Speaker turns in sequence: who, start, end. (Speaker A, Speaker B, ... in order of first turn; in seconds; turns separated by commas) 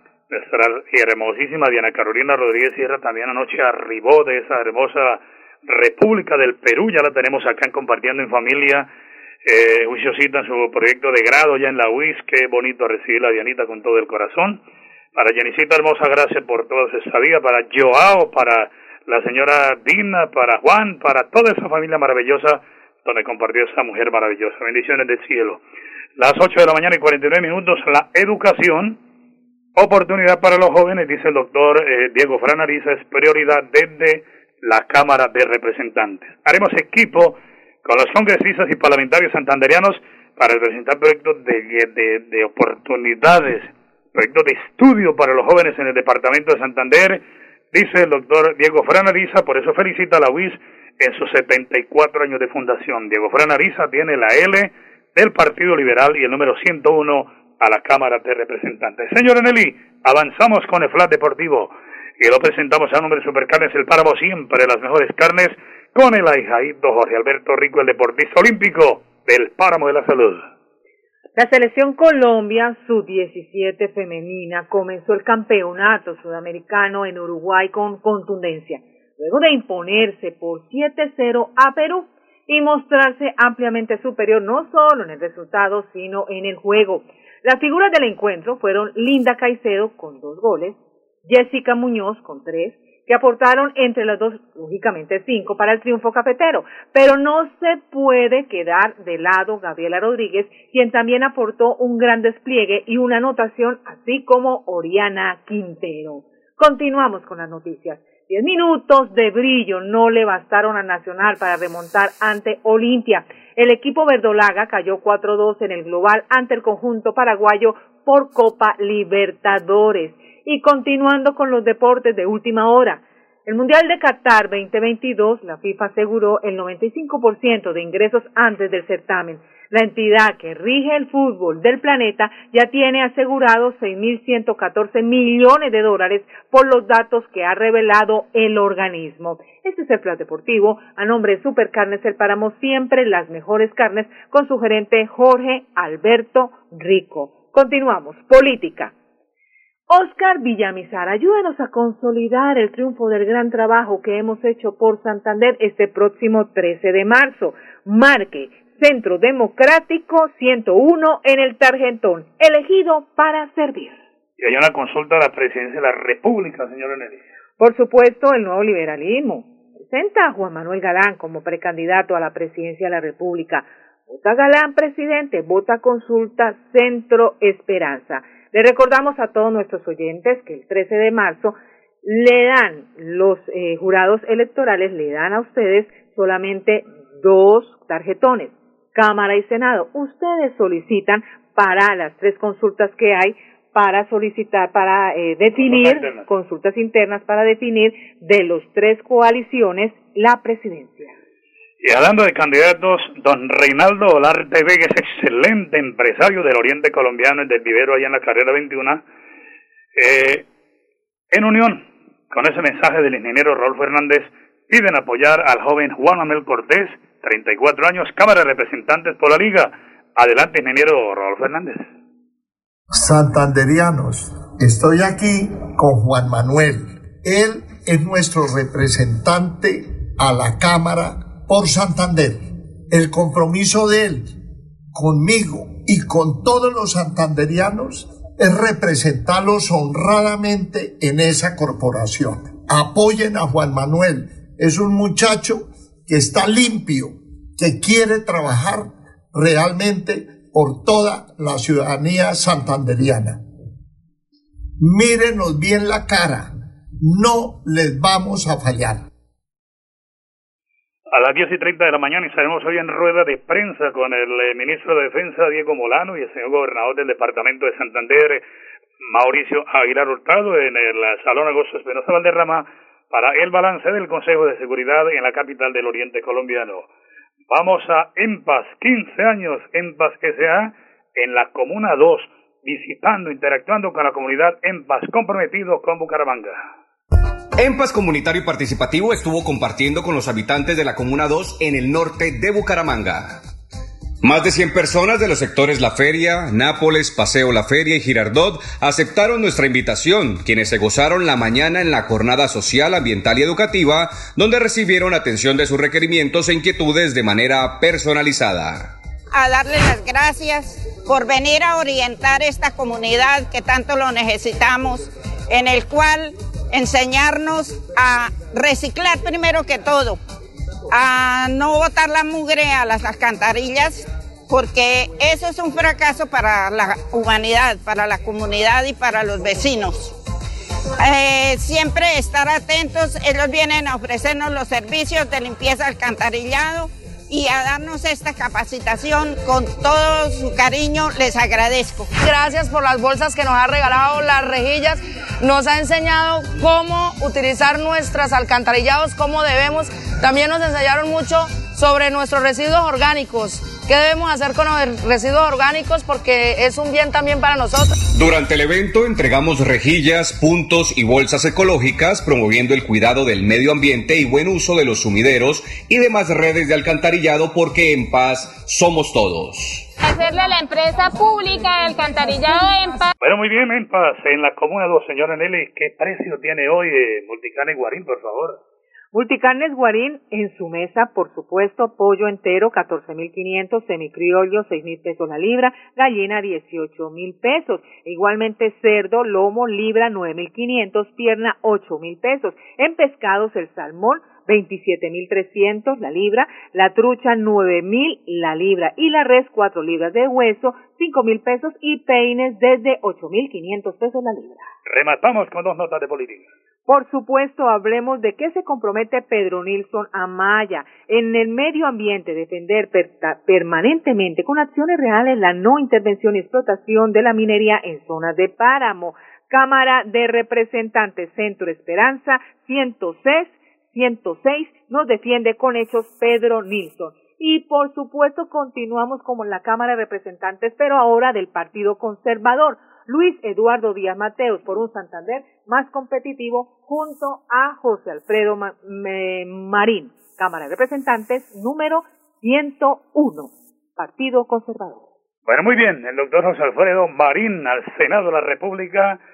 Speaker A: 0.3-8.9, Speaker A: 9.4-14.6, Speaker A: 15.2-25.6, Speaker A: 26.2-29.0, Speaker A: 29.8-70.4, Speaker B: 71.4-148.9, Speaker B: 149.9-164.0, Speaker A: 164.4-167.2, Speaker B: 167.6-201.1, Speaker A: 195.6-196.3, Speaker A: 201.8-209.0, Speaker A: 210.0-210.5, Speaker A: 211.3-221.9, Speaker C: 222.9-234.3, Speaker C: 234.9-253.4, Speaker C: 254.8-259.1, Speaker A: 261.1-268.4, Speaker A: 269.0-276.9, Speaker A: 277.5-286.6, Speaker D: 287.6-293.4, Speaker D: 294.2-308.9, Speaker E: 309.3-320.2, Speaker E: 320.9-330.1, Speaker E: 331.0-342.1, Speaker F: 342.2-358.0, Speaker D: 358.1-369.9, Speaker G: 370.0-373.1, Speaker A: 373.2-378.6, Speaker B: 379.1-404.7, Speaker A: 404.9-406.5, Speaker B: 406.9-445.1, Speaker A: 445.5-449.2